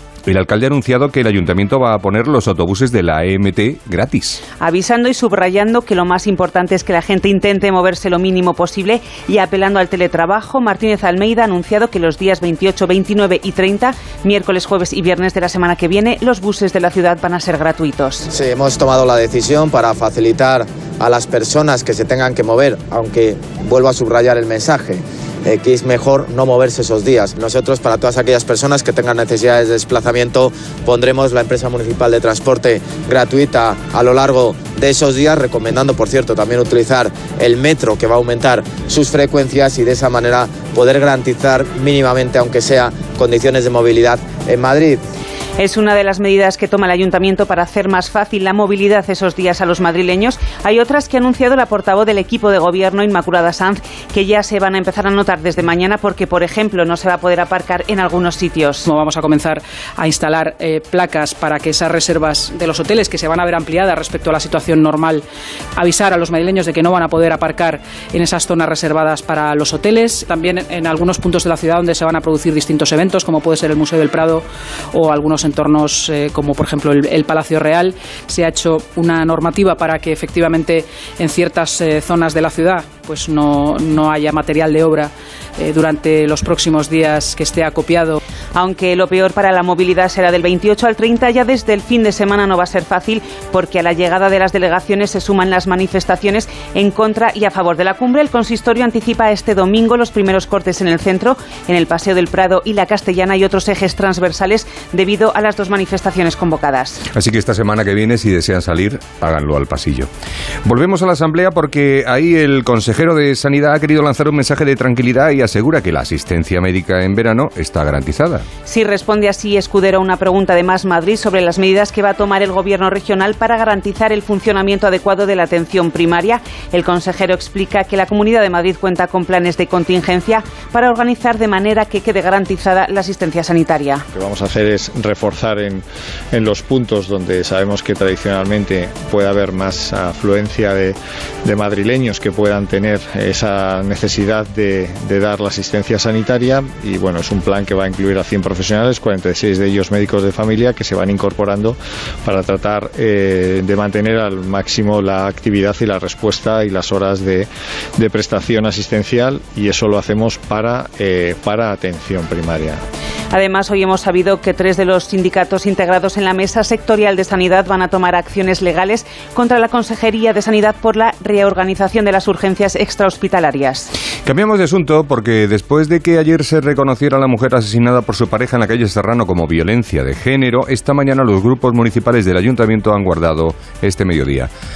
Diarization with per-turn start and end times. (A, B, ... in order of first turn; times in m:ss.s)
0:00.3-0:04.4 A
0:04.6-0:18.3 B
0:18.3-0:45.0 C
0:45.6-0:58.9 B
0:58.8-1:05.2 D
1:05.8-1:28.2 D
1:28.5-1:47.0 B
1:47.1-1:50.1 A
1:50.6-1:58.4 A
1:58.6-2:14.0 B
2:14.1-2:42.8 E
2:43.3-2:53.9 B
2:54.2-3:04.5 A